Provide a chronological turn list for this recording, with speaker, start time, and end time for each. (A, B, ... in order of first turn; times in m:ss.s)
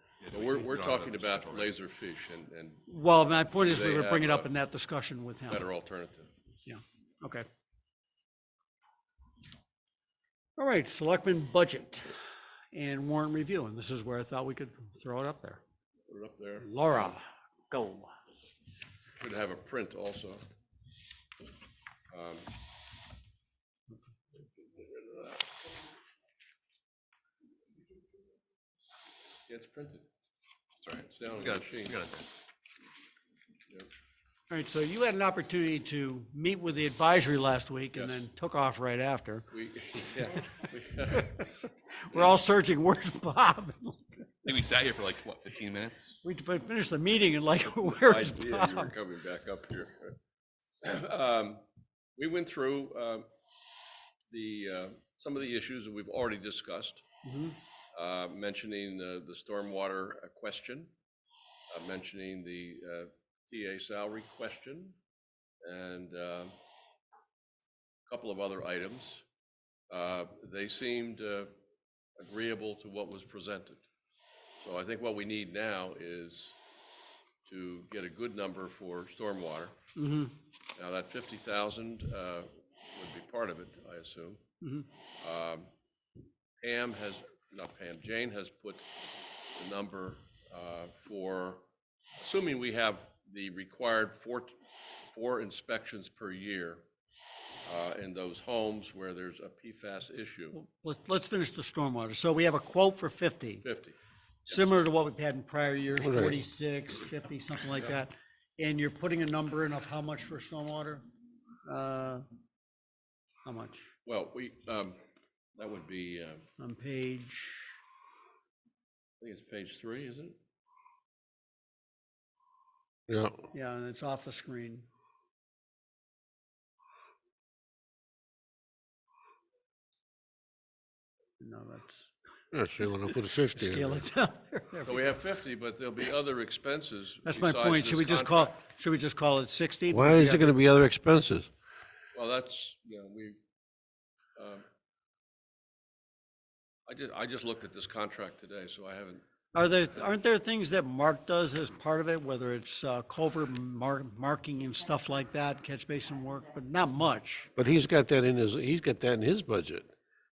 0:00.2-0:01.7 A
0:00.3-0:04.5 B
0:02.9-0:05.6 C
0:05.5-0:06.3 B
0:06.6-0:07.5 C
0:10.6-0:12.2 C
0:12.7-0:15.6 C
0:16.1-0:16.7 B
0:16.6-0:18.1 C
0:19.2-0:20.4 B
0:22.1-0:22.5 B
0:24.4-0:25.6 B
0:29.5-0:30.0 B
0:30.8-0:32.3 A
0:31.1-0:32.0 B
0:34.5-0:39.5 C
0:37.9-0:38.2 B
0:39.5-0:42.4 B
0:42.0-0:44.2 C
0:44.4-0:46.2 A
0:46.2-0:48.9 C
0:48.0-0:50.2 B
0:50.8-0:51.6 B
0:52.2-0:53.2 B
0:54.3-0:57.0 B
0:57.2-0:57.6 C
0:57.9-1:00.9 B
1:01.7-1:05.0 B
1:05.6-1:06.5 B
1:08.1-1:09.2 B
1:09.9-1:11.5 B
1:12.2-1:13.8 B
1:14.6-1:16.5 B
1:17.4-1:19.7 B
1:20.0-1:20.3 C
1:20.8-1:24.4 B
1:24.6-1:24.9 C
1:25.2-1:25.7 B
1:26.6-1:28.9 B
1:29.5-1:31.6 B
1:32.2-1:34.6 B
1:35.1-1:36.8 B
1:37.6-1:40.6 B
1:40.5-1:43.6 C
1:43.6-1:44.0 B
1:44.4-1:51.0 C
1:44.5-1:44.8 B
1:46.0-1:46.4 D
1:51.6-1:52.2 C
1:53.4-1:53.9 C
1:54.0-1:55.0 B
1:55.6-1:56.4 B
1:56.6-1:57.7 C
1:59.2-2:00.4 B
2:03.1-2:03.5 D
2:03.5-2:04.8 C
2:11.4-2:12.1 C
2:12.5-2:14.0 D
2:13.5-2:15.1 C
2:14.8-2:18.5 B
2:17.2-2:20.6 C
2:19.9-2:21.5 D
2:22.1-2:23.4 B
2:24.4-2:24.6 B
2:26.9-2:29.2 B
2:29.5-2:37.5 C
2:37.6-2:39.9 D